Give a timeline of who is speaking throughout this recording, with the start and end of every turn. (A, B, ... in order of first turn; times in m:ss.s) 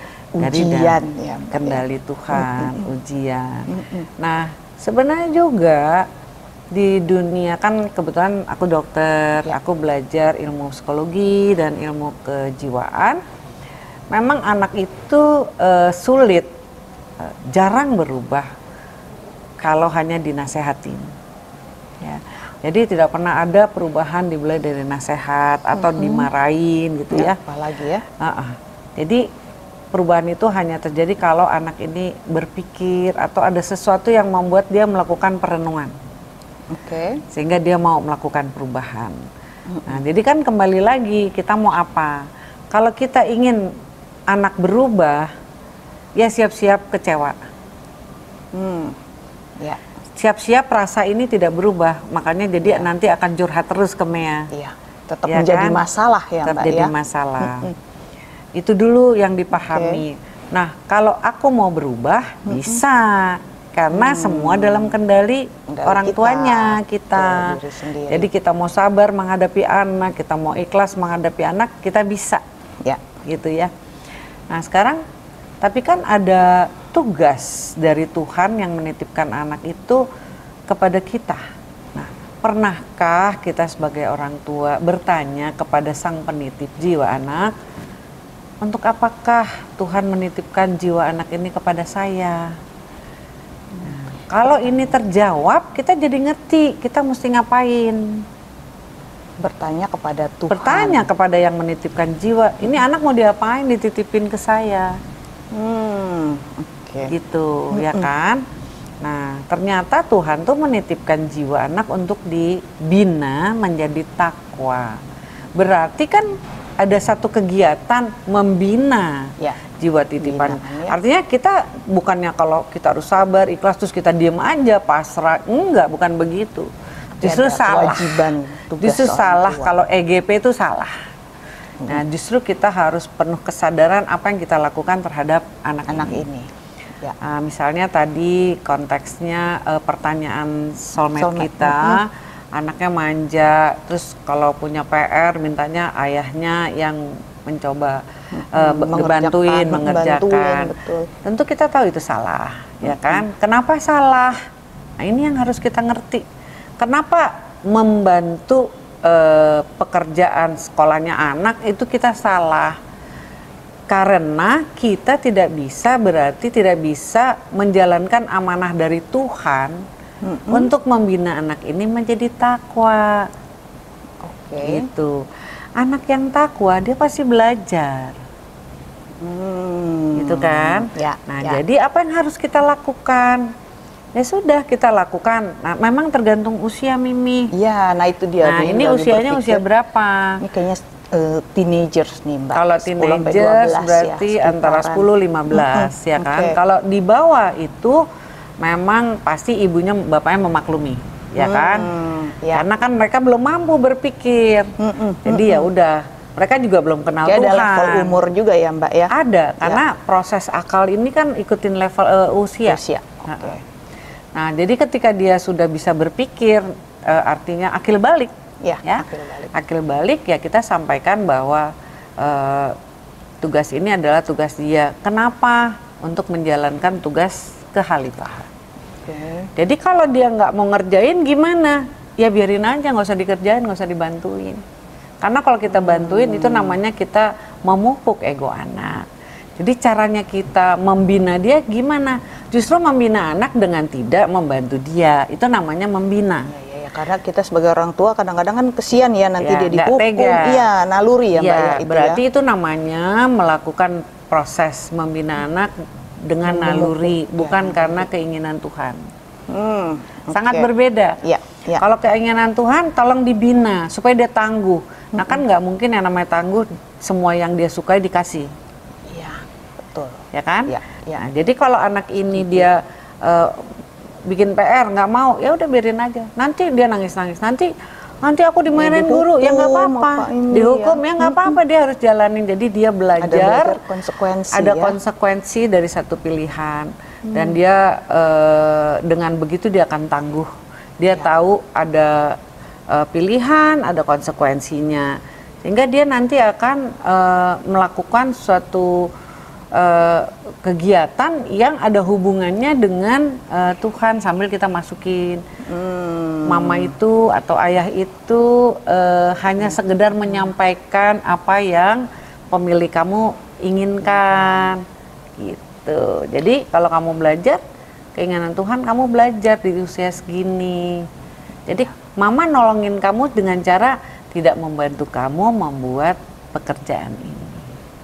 0:00.4-0:02.9 A
0:00.4-0:01.0 B
0:01.5-0:06.1 B
0:03.7-0:04.1 A
0:06.7-0:13.2 B
0:14.1-0:16.5 B
0:17.2-0:18.5 B
0:19.6-0:21.1 B
0:22.0-0:27.4 B
0:25.7-0:26.3 A
0:27.1-0:28.0 A
0:28.2-0:29.2 B
0:29.9-0:35.9 B
0:36.7-0:37.2 A
0:37.3-0:39.2 B
0:39.7-0:40.0 A
0:39.8-0:43.6 B
0:44.3-0:45.3 B
0:46.2-0:47.4 B
0:48.5-0:49.0 A
0:50.2-0:54.5 B
0:54.5-0:57.7 A
0:55.2-0:55.8 B
0:56.4-0:57.7 B
0:58.6-1:12.4 B
0:59.5-1:00.0 A
1:02.5-1:02.8 A
1:03.9-1:05.0 A
1:05.7-1:08.3 A
1:13.2-1:13.7 B
1:14.5-1:15.0 B
1:15.6-1:20.0 B
1:20.7-1:21.4 B
1:21.9-1:27.5 B
1:28.6-1:32.5 B
1:33.8-1:38.2 B
1:39.4-1:41.1 A
1:40.5-1:44.9 B
1:45.5-1:47.1 A
1:47.1-1:48.4 B
1:47.7-1:48.1 A
1:49.0-1:55.0 B
1:55.6-2:06.7 B
2:00.2-2:01.0 A
2:07.2-2:10.9 B
2:07.2-2:09.7 A
2:11.8-2:16.2 B
2:15.9-2:16.5 A
2:17.2-2:34.4 B
2:21.1-2:22.0 A
2:28.3-2:31.1 A
2:32.8-2:33.2 A
2:35.0-2:36.2 B
2:36.8-2:42.8 B
2:43.9-2:49.8 B
2:50.2-2:50.7 A
2:50.5-2:53.3 B
2:54.2-2:54.9 A
2:54.6-2:55.2 B
2:55.8-2:58.2 B
2:59.2-3:01.6 A
3:00.2-3:03.5 B
3:04.1-3:07.5 B
3:07.5-3:09.6 A
3:08.4-3:10.4 B
3:10.4-3:16.6 A
3:12.5-3:18.0 B
3:18.6-3:21.9 B
3:21.4-3:22.6 A
3:22.5-3:28.2 B
3:24.8-3:25.7 A
3:27.2-3:29.8 A
3:29.1-3:33.6 B
3:32.6-3:33.6 A
3:34.3-3:38.3 B
3:38.6-3:39.5 A
3:38.8-3:42.8 B
3:43.4-3:48.5 B
3:49.0-3:49.5 A
3:49.6-3:54.6 B
3:55.2-3:59.0 B
3:55.7-3:56.8 A
3:59.6-4:06.5 B
4:06.5-4:12.2 A
4:09.4-4:10.6 B
4:11.3-4:15.7 B
4:16.2-4:19.0 B
4:16.4-4:18.1 A
4:19.5-4:20.7 A
4:20.3-4:21.2 B
4:21.2-4:21.8 A
4:21.7-4:28.5 B
4:25.2-4:25.4 A
4:29.1-4:31.2 A
4:30.3-4:33.7 B
4:32.3-4:32.7 A
4:34.2-4:37.7 B
4:38.2-4:43.8 B
4:38.7-4:41.6 A
4:43.2-4:45.0 A
4:44.5-4:52.4 B
4:47.2-4:47.6 A
4:52.9-4:59.1 B
4:59.7-5:05.4 B
5:05.6-5:06.9 A
5:06.4-5:14.8 B
5:09.6-5:10.5 A
5:14.0-5:14.7 A
5:15.4-5:17.6 B
5:18.2-5:21.0 B
5:21.7-5:27.7 B